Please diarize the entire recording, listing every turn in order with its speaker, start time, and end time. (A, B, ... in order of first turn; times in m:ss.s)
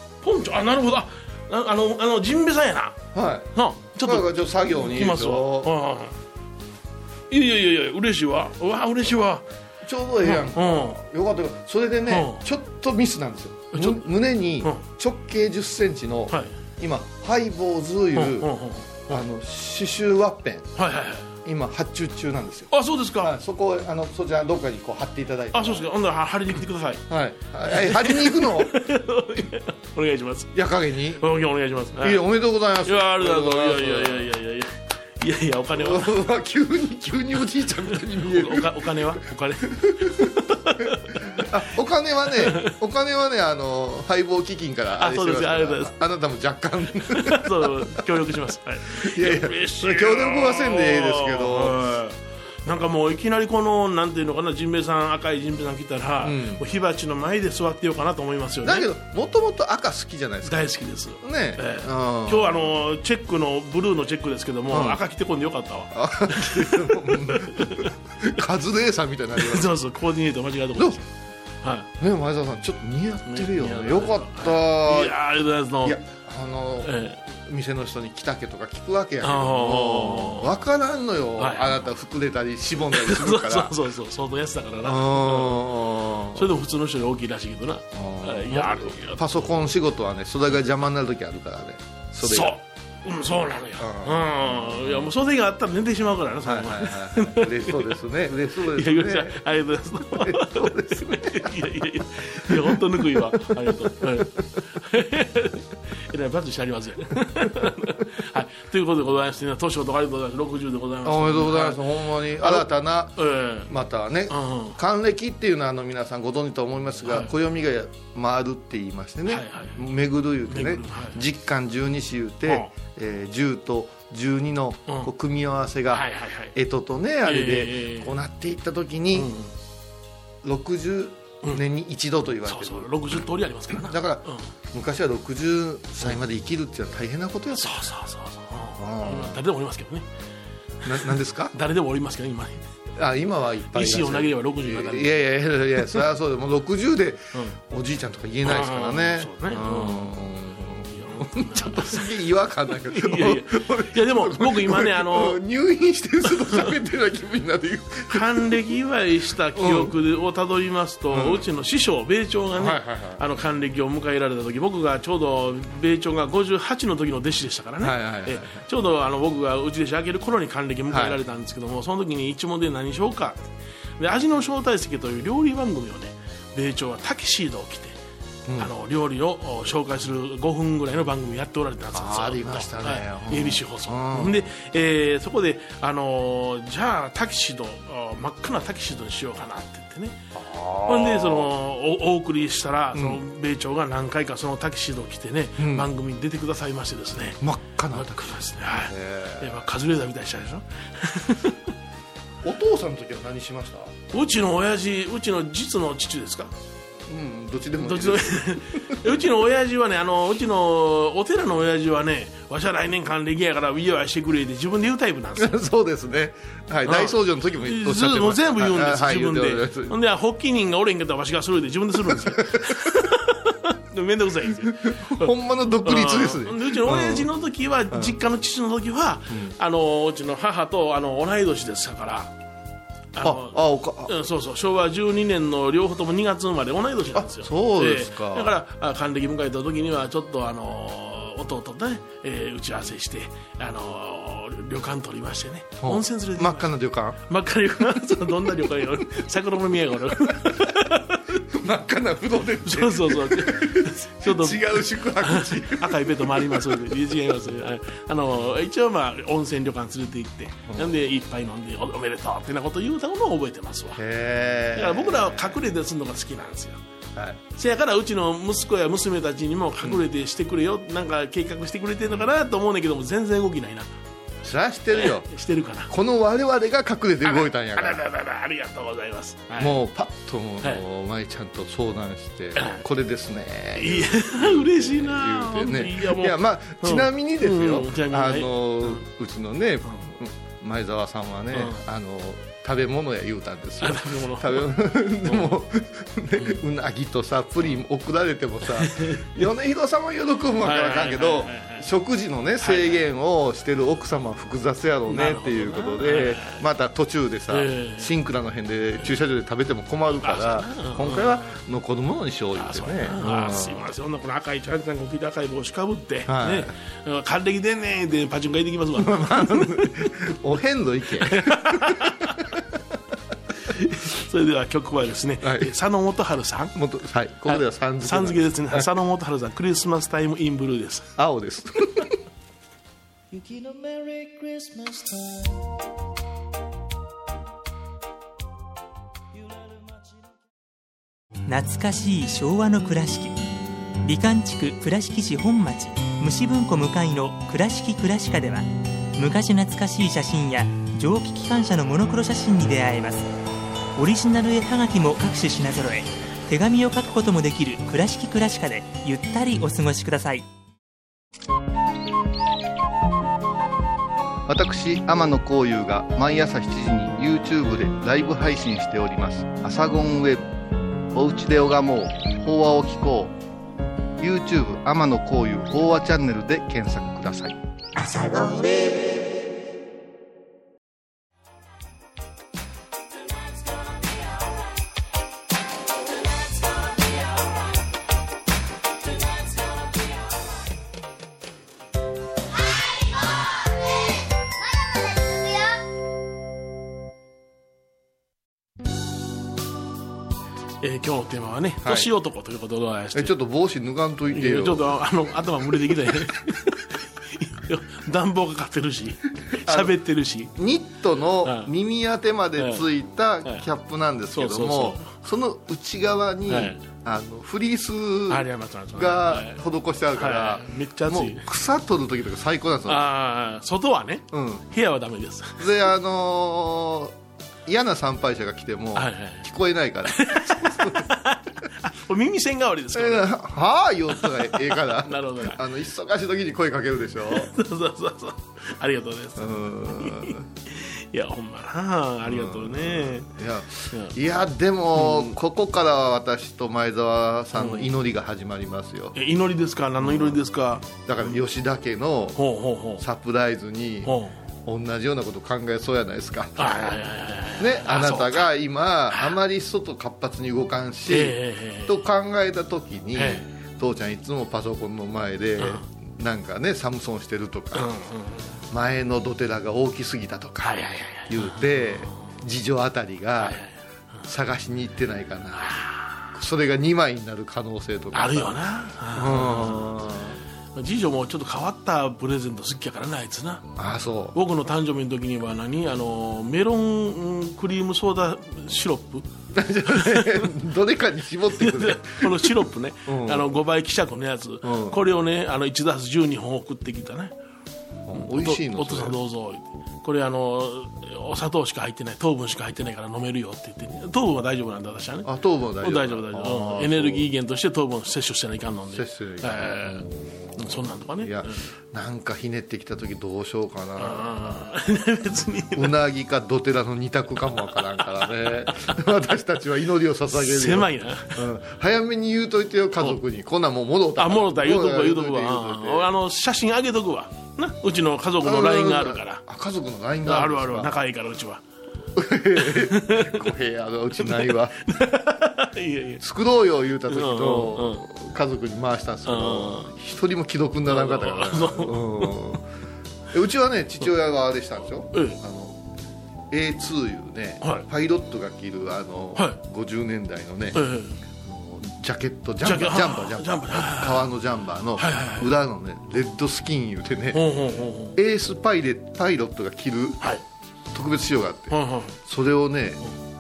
0:00.2-0:03.0 A
0:03.1-0:03.5 B
0:03.5-0:06.2 A
0:04.0-0:05.7 B
0:07.3-0:09.4 A
0:09.8-0:18.5 B
0:10.2-0:11.0 A
0:12.1-0:12.4 A
0:13.7-0:14.0 A
0:16.3-0:16.5 A
0:18.2-0:19.2 A
0:19.1-0:20.7 B
0:20.8-0:21.3 A
0:21.4-0:25.9 B
0:22.7-0:23.3 A
0:25.5-0:27.0 A
0:27.1-0:28.7 B
0:27.7-0:30.6 A
0:30.5-0:31.2 B
0:31.1-0:32.2 A
0:32.0-0:34.3 B
0:32.8-0:36.2 A
0:35.8-0:38.8 B
0:38.1-0:41.2 A
0:39.8-0:40.3 B
0:41.2-0:47.7 B
0:42.3-0:42.7 A
0:45.0-0:46.0 A
0:47.1-0:58.9 A
0:49.0-0:51.8 B
0:56.2-0:56.6 B
0:58.6-1:00.6 B
1:00.4-1:07.9 A
1:01.2-1:02.6 B
1:04.7-1:05.0 B
1:05.9-1:09.7 B
1:09.4-1:11.1 A
1:11.6-1:11.9 A
1:12.0-1:15.2 B
1:13.3-1:16.0 A
1:15.8-1:23.8 B
1:16.8-1:17.2 A
1:19.2-1:20.5 A
1:21.4-1:21.9 A
1:22.9-1:25.7 A
1:24.8-1:26.5 B
1:26.3-1:29.4 A
1:27.9-1:32.6 B
1:32.2-1:37.9 A
1:33.8-1:35.1 B
1:36.4-1:39.4 B
1:38.6-1:51.8 A
1:40.1-1:44.1 B
1:51.0-1:53.2 B
1:52.4-1:53.7 A
1:53.7-2:09.3 B
1:54.3-1:54.8 A
1:57.0-1:57.3 A
1:59.3-1:59.8 A
2:00.5-2:01.2 A
2:02.5-2:02.7 A
2:05.9-2:06.5 A
2:07.2-2:08.1 A
2:09.1-2:09.5 A
2:10.4-2:13.0 B
2:12.5-2:14.5 A
2:13.7-2:17.8 B
2:17.5-2:20.1 A
2:18.8-2:19.4 B
2:20.8-2:21.5 B
2:20.9-2:22.6 A
2:23.0-2:38.6 B
2:23.7-2:25.2 A
2:28.4-2:30.1 A
2:30.9-2:32.2 A
2:32.7-2:35.4 A
2:36.3-2:36.7 A
2:38.1-2:58.0 A
2:39.6-2:39.9 B
2:41.1-2:41.4 B
2:42.6-2:43.2 B
2:47.8-2:48.6 B
2:50.9-2:51.2 B
2:58.6-3:10.2 A
3:01.9-3:04.5 B
3:10.3-3:11.5 B
3:10.9-3:17.4 A
3:12.9-3:13.2 B
3:15.6-3:15.9 B
3:17.4-3:19.7 B
3:17.9-3:21.6 A
3:22.4-3:23.9 B
3:24.1-3:26.5 A
3:27.1-3:29.0 B
3:27.8-3:35.6 A
3:35.4-3:40.0 B
3:36.8-3:45.3 A
3:42.1-3:42.9 B
3:44.8-3:47.3 B
3:45.8-3:52.3 A
3:49.3-3:49.5 B
3:53.2-4:06.7 A
3:53.2-3:54.1 B
3:57.1-3:58.6 B
4:05.8-4:07.2 B
4:07.2-4:11.4 A
4:11.5-4:16.8 B
4:12.6-4:24.0 A
4:20.7-4:20.9 B
4:24.0-4:25.6 B
4:24.7-4:26.8 A
4:27.6-4:33.9 A
4:34.4-4:35.3 B
4:34.9-4:35.9 A
4:35.9-4:38.0 B
4:37.2-4:39.8 A
4:39.6-5:13.9 B
4:42.6-4:42.8 A
4:43.8-4:49.0 A
4:51.5-4:51.8 A
4:53.8-4:55.6 A
4:58.6-4:59.4 A
5:00.6-5:01.9 A
5:02.6-5:03.0 A
5:05.1-5:06.6 A
5:07.5-5:08.2 A
5:10.2-5:11.6 A
5:12.6-5:20.0 A
5:16.3-5:16.7 B
5:19.0-5:22.6 B
5:21.2-5:22.4 A
5:23.6-5:26.7 A
5:25.4-5:25.7 B
5:26.8-5:28.9 B
5:27.4-5:31.1 A
5:31.2-5:32.1 B
5:33.3-5:35.7 C
5:39.4-5:40.1 C
5:41.5-5:43.4 D
5:44.0-5:53.3 D
5:54.0-6:00.5 D
6:04.5-6:10.5 B
6:11.1-6:13.3 B
6:14.2-6:17.6 B
6:40.8-6:43.4 A
6:41.8-6:42.1 B
6:43.1-6:44.9 B
6:44.3-6:50.5 A
6:49.6-6:50.0 B
6:50.6-7:03.1 B
6:51.4-6:51.7 A
6:52.6-6:52.9 A
6:54.3-6:55.1 A
6:56.5-6:56.8 A
6:58.3-6:59.6 A
7:00.1-7:01.5 A
7:02.9-7:05.7 A
7:04.3-7:04.6 B
7:05.6-7:07.1 B
7:07.7-7:11.1 B
7:09.0-7:09.4 A
7:10.1-7:13.4 A
7:13.0-7:17.5 B
7:14.1-7:15.6 A
7:17.3-7:23.3 A
7:19.4-7:20.4 B
7:22.3-7:29.2 B
7:25.0-7:25.4 A
7:27.5-7:27.9 A
7:29.2-7:31.4 A
7:30.0-7:30.4 B
7:31.0-7:32.4 B
7:32.4-7:33.0 A
7:33.0-7:34.1 B
7:34.0-7:34.4 A
7:34.6-7:36.9 B
7:36.6-7:38.5 A
7:37.6-7:47.9 B
7:39.1-7:39.4 A
7:41.1-7:42.0 A
7:43.2-7:43.5 A
7:45.6-7:45.8 A
7:47.7-7:48.5 A
7:48.7-7:53.6 B
7:50.6-7:52.1 A
7:53.4-7:54.2 A
7:54.3-7:58.6 B
7:55.5-7:56.3 A
7:58.1-7:59.9 A
7:59.1-8:00.4 B
8:00.7-8:03.7 A
8:03.8-8:04.4 B
8:04.3-8:09.3 A
8:09.5-8:13.5 B
8:09.9-8:10.6 A
8:11.5-8:17.4 A
8:14.6-8:15.0 B
8:18.1-8:19.2 B
8:18.1-8:25.3 A
8:25.2-8:27.3 B
8:25.8-8:30.1 A
8:28.9-8:30.1 B
8:30.6-8:31.7 A
8:31.2-8:34.6 B
8:34.0-8:36.0 A
8:35.7-8:46.1 B
8:38.0-8:39.0 A
8:40.3-8:41.4 A
8:44.2-8:49.4 A
8:48.4-8:51.0 B
8:50.2-8:51.6 A
8:52.2-8:54.8 B
8:52.6-8:53.5 A
8:54.2-8:56.2 A
8:56.2-9:02.6 B
8:57.1-8:58.0 A
8:59.2-8:59.9 A
9:00.9-9:02.3 A
9:03.3-9:05.8 B
9:05.1-9:05.4 A
9:06.5-9:10.8 B
9:10.7-9:11.2 A
9:11.4-9:17.4 B
9:12.6-9:14.3 A
9:15.0-9:15.5 A
9:17.3-9:18.2 A
9:18.2-9:20.2 B
9:20.9-9:23.1 B
9:21.7-9:22.2 A